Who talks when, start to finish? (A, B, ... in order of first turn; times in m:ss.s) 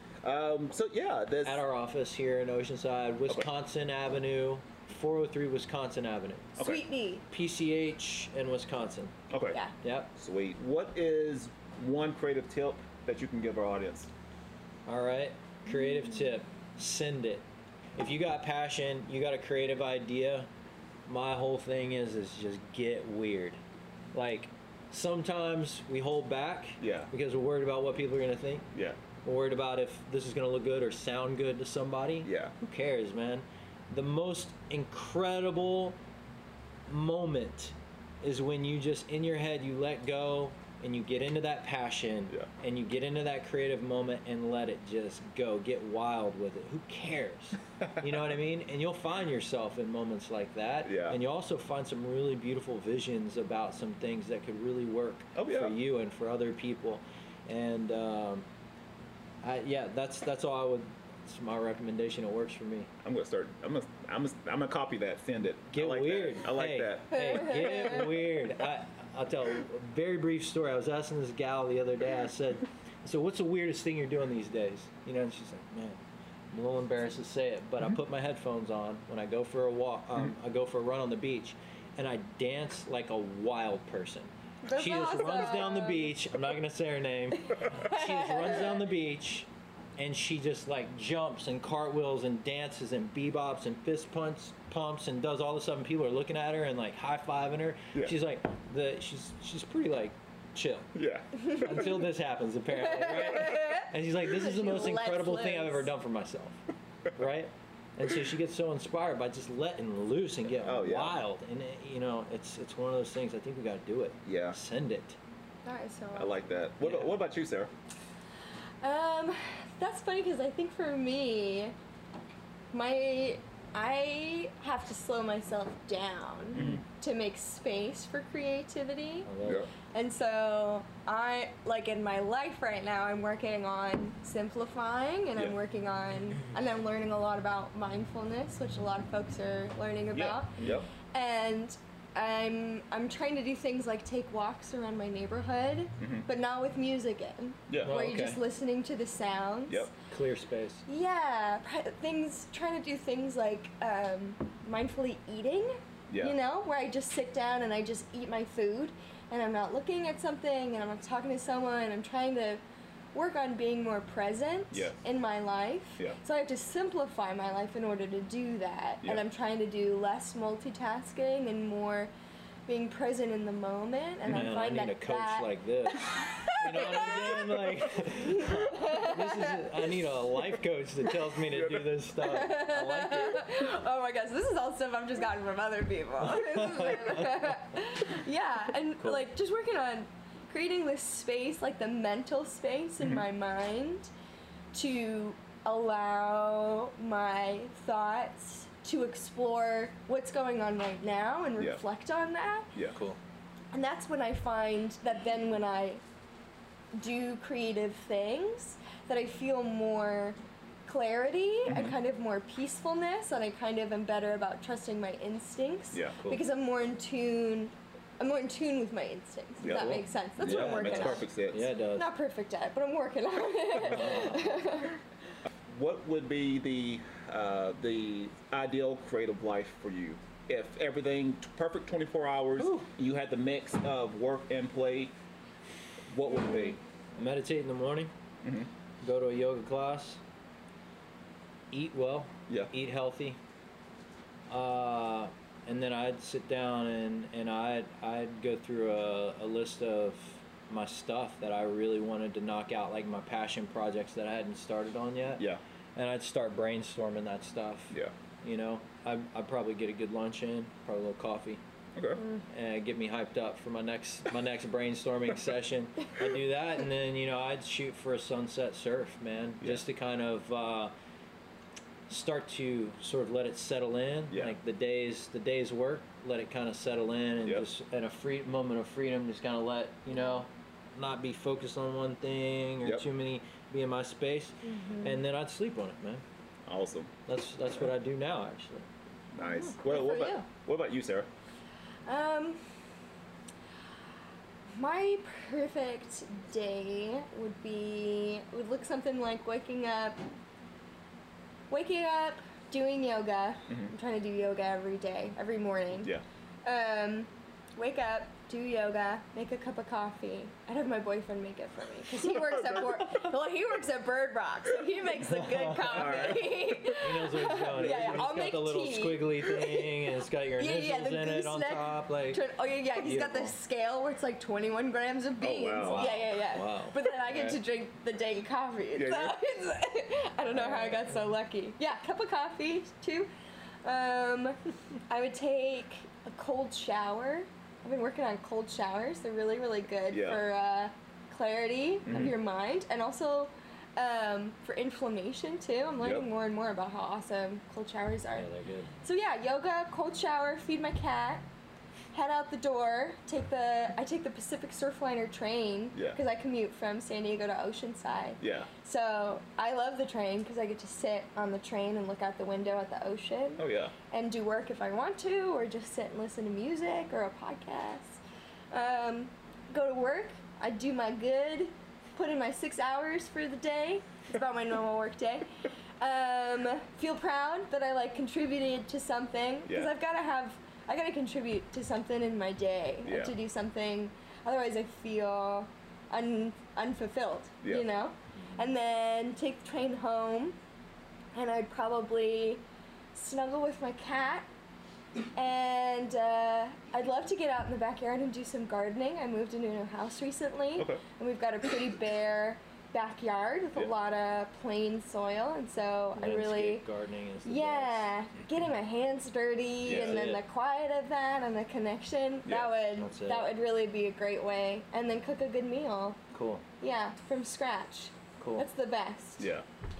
0:00.2-0:01.6 A
0:01.4-0:06.6 B
0:06.6-0:07.2 C
0:07.3-0:09.2 B
0:09.3-0:09.6 A
0:09.8-0:10.1 B
0:10.1-0:14.1 A
0:14.9-0:17.4 B
0:15.8-0:16.2 C
0:18.0-0:20.5 B
0:21.1-0:23.6 B
0:24.1-0:28.7 B
0:26.8-0:27.1 A
0:29.2-0:36.0 B
0:32.2-0:32.5 A
0:36.9-0:58.4 B
0:47.8-0:48.2 A
0:50.8-0:51.2 A
0:55.3-0:55.8 A
0:59.4-1:02.9 B
1:03.0-1:07.6 A
1:05.7-1:16.0 B
1:07.2-1:08.0 C
1:16.5-1:40.9 B
1:24.6-1:26.1 C
1:27.5-1:28.8 C
1:40.9-1:41.9 A
1:41.5-1:46.6 B
1:42.8-1:45.9 C
1:47.1-1:55.2 B
1:50.6-1:51.2 A
1:54.2-1:54.6 A
1:55.6-1:56.4 C
1:56.1-1:57.7 A
1:56.8-1:57.1 B
1:58.8-2:01.7 C
2:02.7-2:29.9 C
2:06.5-2:06.8 A
2:09.2-2:09.7 B
2:20.1-2:20.9 A
2:26.0-2:26.2 A
2:27.7-2:27.9 A
2:27.8-2:28.4 B
2:30.1-2:30.8 B
2:30.9-2:42.6 C
2:36.1-2:36.3 A
2:43.1-2:52.1 C
2:44.7-2:45.0 A
2:52.7-2:57.5 C
2:54.2-2:54.5 A
2:54.3-3:03.4 B
2:56.8-2:57.5 A
2:58.3-3:00.0 C
3:01.5-3:01.9 A
3:02.2-3:14.1 C
3:06.3-3:07.3 B
3:14.7-3:22.7 C
3:23.7-3:26.0 C
3:26.9-3:41.3 C
3:31.7-3:32.0 A
3:39.6-3:41.7 A
3:39.7-3:42.1 B
3:41.9-3:45.0 C
3:43.8-3:44.5 B
3:45.7-3:55.1 A
3:52.6-3:52.8 B
3:56.1-3:56.8 A
3:57.2-3:58.1 B
3:58.4-3:58.7 A
3:59.0-4:00.2 B
4:01.7-4:03.4 B
4:04.5-4:15.4 B
4:16.0-4:21.6 B
4:22.0-4:22.2 A
4:22.2-4:22.4 C
4:22.5-4:30.9 B
4:32.1-4:46.2 B
4:34.3-4:34.6 A
4:44.6-4:45.2 C
4:46.6-4:47.1 A
4:47.3-4:48.9 B
4:49.3-4:51.3 A
4:49.4-4:50.4 C
4:52.1-4:52.7 C
4:54.7-5:00.2 C
5:01.7-5:06.1 C
5:06.6-5:20.0 C
5:12.4-5:13.0 A
5:15.2-5:22.4 B
5:15.9-5:16.6 A
5:17.8-5:18.2 A
5:20.6-5:33.3 C
5:22.9-5:23.6 B
5:25.4-5:26.2 A
5:25.8-5:27.6 B
5:28.9-5:29.4 A
5:30.5-5:31.2 B
5:33.8-5:34.6 C
5:35.1-5:48.5 C
5:40.1-5:40.4 A
5:42.0-5:42.3 A
5:48.3-5:48.9 B
5:49.0-5:51.4 C
5:52.1-6:15.5 C
5:58.4-5:58.7 A
6:03.6-6:03.9 A
6:16.0-6:30.6 C
6:19.7-6:19.9 A
6:23.0-6:23.4 A
6:31.3-6:32.6 C
6:33.1-6:34.5 C
6:35.3-6:46.8 C
6:46.2-6:48.1 B
6:47.4-6:56.2 C
6:49.8-6:50.2 A
6:49.9-6:50.4 B
6:52.4-6:52.7 A
6:53.0-6:53.5 B
6:56.3-6:56.6 B
6:56.8-6:59.5 C
6:58.4-6:58.6 B
6:59.4-6:59.6 A